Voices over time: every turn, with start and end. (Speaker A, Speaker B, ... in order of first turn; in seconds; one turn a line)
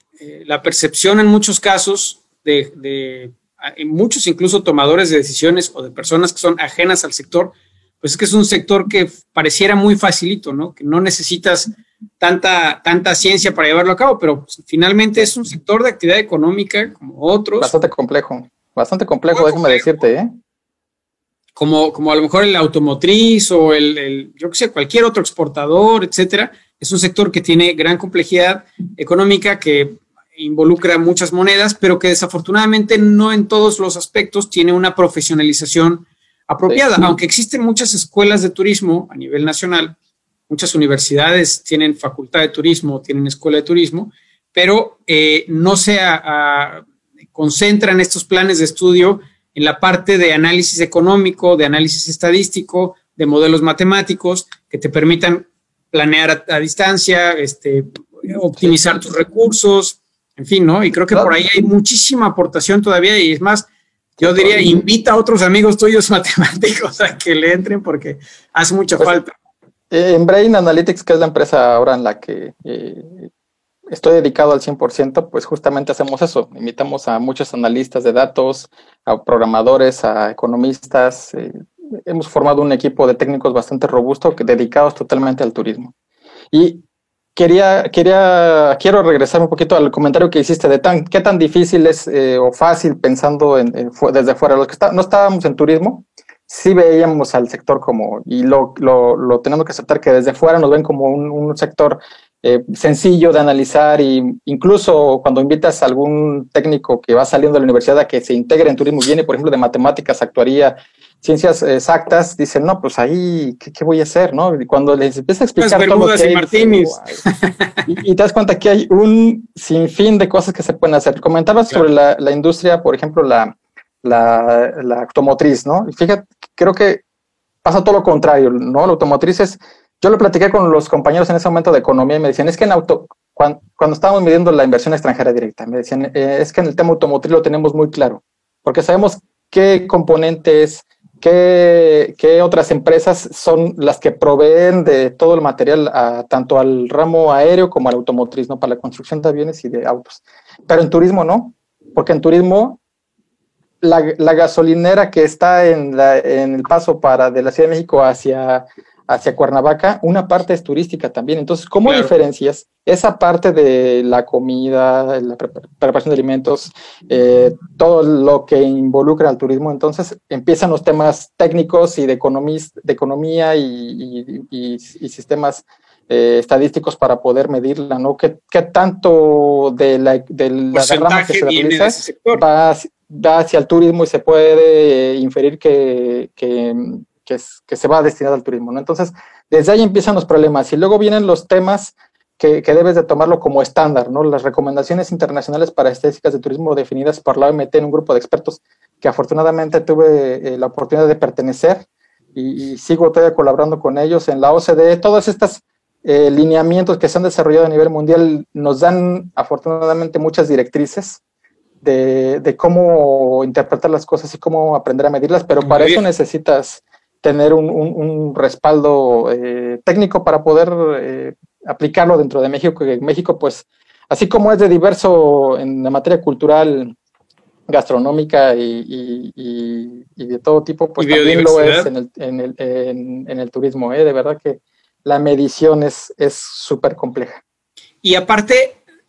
Speaker A: 0.2-17.7
Speaker B: 17.6-20.3
Speaker A: 19.3-19.9
Speaker A: 21.6-40.0
Speaker B: 36.7-37.1
Speaker A: 40.5-63.7
Speaker B: 64.2-64.8
Speaker A: 64.2-69.3
Speaker B: 69.9-73.3
Speaker B: 73.9-85.9
Speaker B: 86.5-86.8
Speaker B: 87.3-117.2
Speaker A: 115.6-117.8
Speaker B: 117.9-127.0
Speaker B: 127.6-152.8
Speaker B: 153.8-211.2
Speaker A: 161.8-162.1
Speaker A: 180.7-182.4
Speaker B: 211.8-226.9
Speaker A: 215.6-216.0
Speaker B: 227.7-237.4
Speaker A: 231.0-231.9
Speaker A: 238.0-238.8